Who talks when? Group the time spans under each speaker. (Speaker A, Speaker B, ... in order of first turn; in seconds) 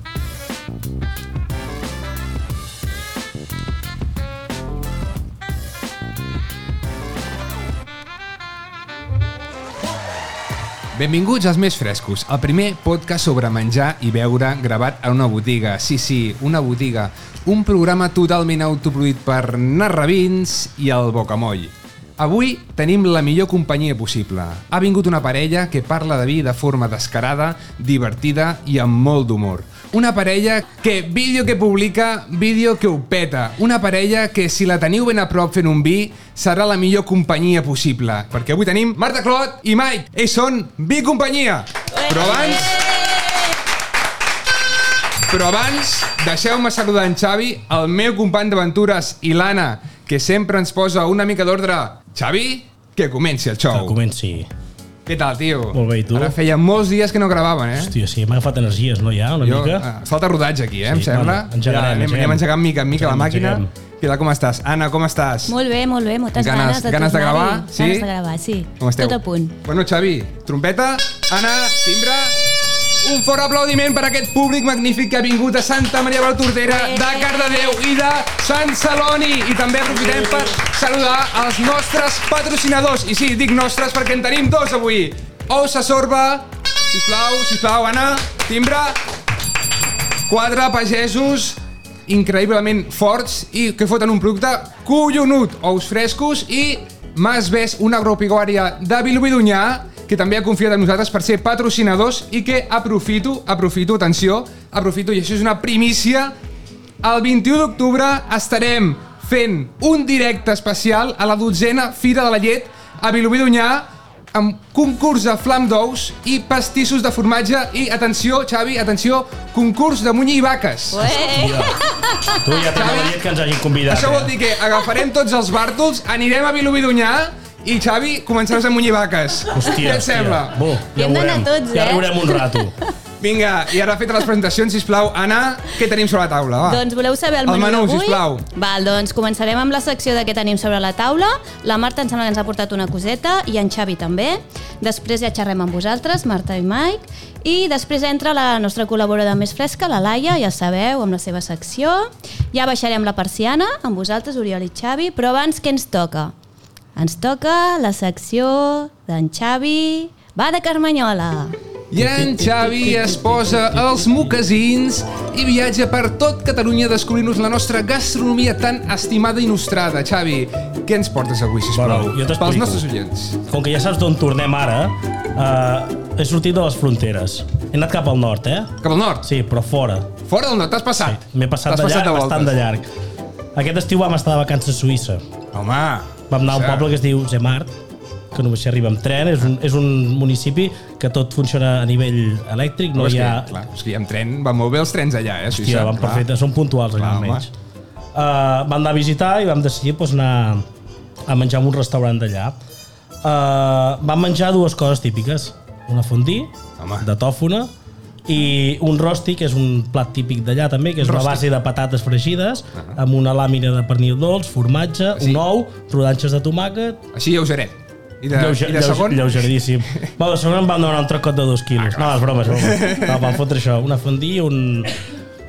Speaker A: 10.9-42.9, 45.3-54.0, 55.1-57.9, 59.4-65.5, 66.4-68.1, 68.8-72.4, 73.0-89.0, 90.3-106.3, 107.0-121.1, 122.7-123.2, 123.9-130.6, 133.2-136.8, 137.4-138.4, 161.9-173.4, 178.8-179.3, 180.3-182.6, 185.5-186.9, 192.9-196.3, 197.0-197.5, 206.8-207.1, 211.0-211.4, 215.2-215.4, 217.1-220.1, 221.8-223.4
Speaker B: 42.0-43.5, 65.5-69.5, 76.7-77.8, 120.9-123.0, 131.0-132.7, 136.6-156.3, 156.9-161.6
Speaker C: 53.7-54.5, 55.7-56.4, 57.8-59.9, 60.9-63.7, 80.0-80.3, 121.3-121.8, 122.4-124.3, 129.5-132.7, 162.0-164.3, 171.7-172.9, 173.4-180.1, 181.0-182.9, 183.6-185.2, 186.3-187.7, 188.3-193.5, 195.5-197.5, 198.1-200.7, 201.3-202.6, 203.2-207.7, 208.3-217.0, 218.3-225.0